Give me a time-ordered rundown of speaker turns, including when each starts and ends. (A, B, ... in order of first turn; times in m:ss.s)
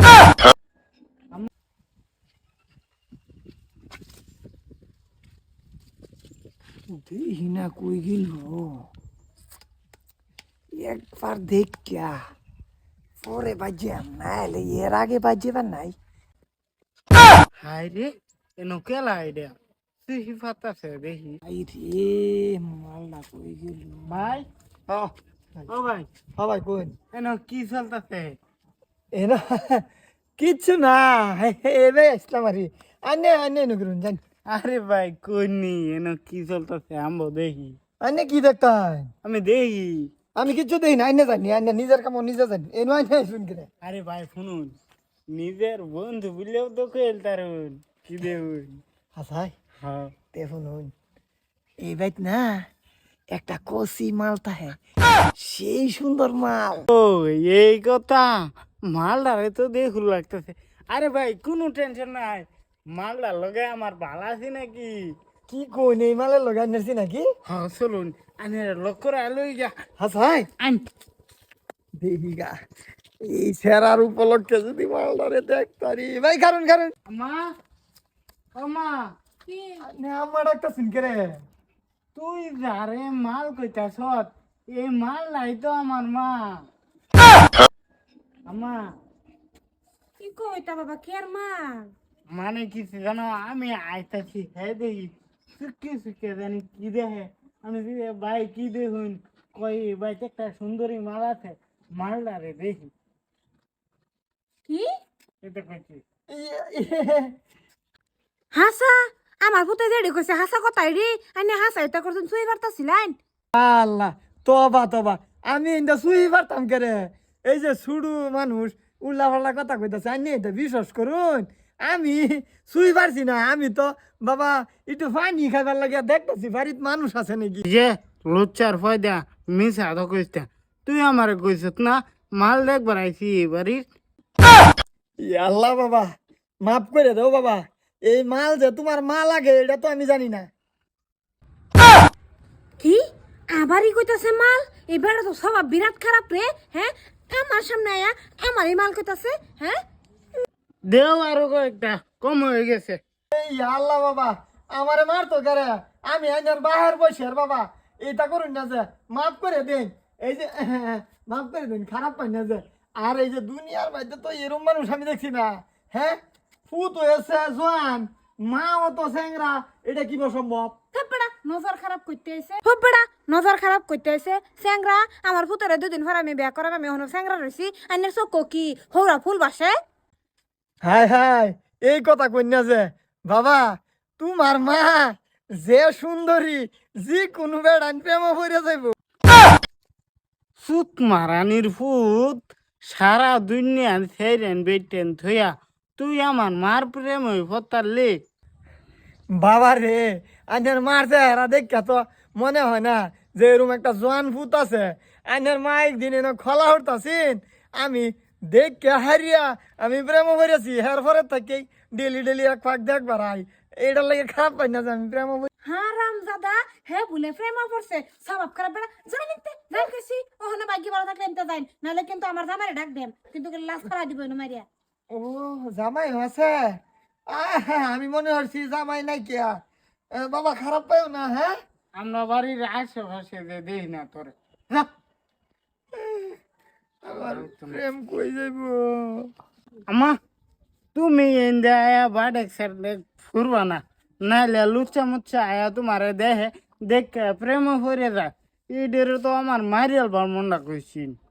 0:06.9-0:08.9 A
0:10.7-0:12.2 A
0:13.2-0:16.0 A
0:17.6-0:21.4 B
0:21.4-0:24.3 A
0:24.1-0:24.4 B
0:24.9-0:25.7 A
0:25.7-0:26.1 B
0:26.4-0:26.9 A
0:27.1-0:28.4 B
0:29.1-0:29.8 A
0:30.4-0:34.2 A
0:34.5-0:37.8 B
0:38.0-0:39.1 A
0:39.2-0:40.1 B
0:40.4-0:43.7 A
0:43.8-0:44.7 B
0:45.3-0:48.8 B
0:49.1-0:49.5 A
0:49.8-0:50.1 B
0:50.3-0:50.9 A
0:51.8-0:52.6 A
0:53.3-0:54.8 A
0:55.4-0:56.9 A
0:56.9-1:05.1 B
1:05.5-1:07.3 A
1:07.4-1:09.7 B
1:10.0-1:10.5 A
1:12.0-1:12.6 A
1:13.2-1:16.9 A
1:17.1-1:17.4 B
1:18.5-1:19.1 B
1:19.5-1:19.8 C
1:19.8-1:21.4 A
1:22.1-1:26.6 B
1:28.5-1:28.8 B
1:30.2-1:31.9 C
1:32.3-1:42.9 B
1:45.4-1:46.0 B
1:46.3-1:47.3 A
1:48.5-1:53.2 C
1:53.5-2:07.6 A
2:07.6-2:13.8 B
2:15.2-2:20.5 A
2:22.8-2:29.8 C
2:30.9-2:33.0 B
2:33.3-2:50.8 A
2:50.9-2:59.7 C
3:00.8-3:08.9 A
3:10.6-3:18.2 B
3:19.3-3:35.5 A
3:35.6-3:44.6 C
3:45.1-3:49.6 A
3:50.1-3:51.6 A
3:52.0-3:54.3 B
3:55.9-3:56.4 A
3:57.0-3:59.3 A
3:57.2-3:57.8 B
3:59.9-4:00.2 B
4:00.9-4:11.2 B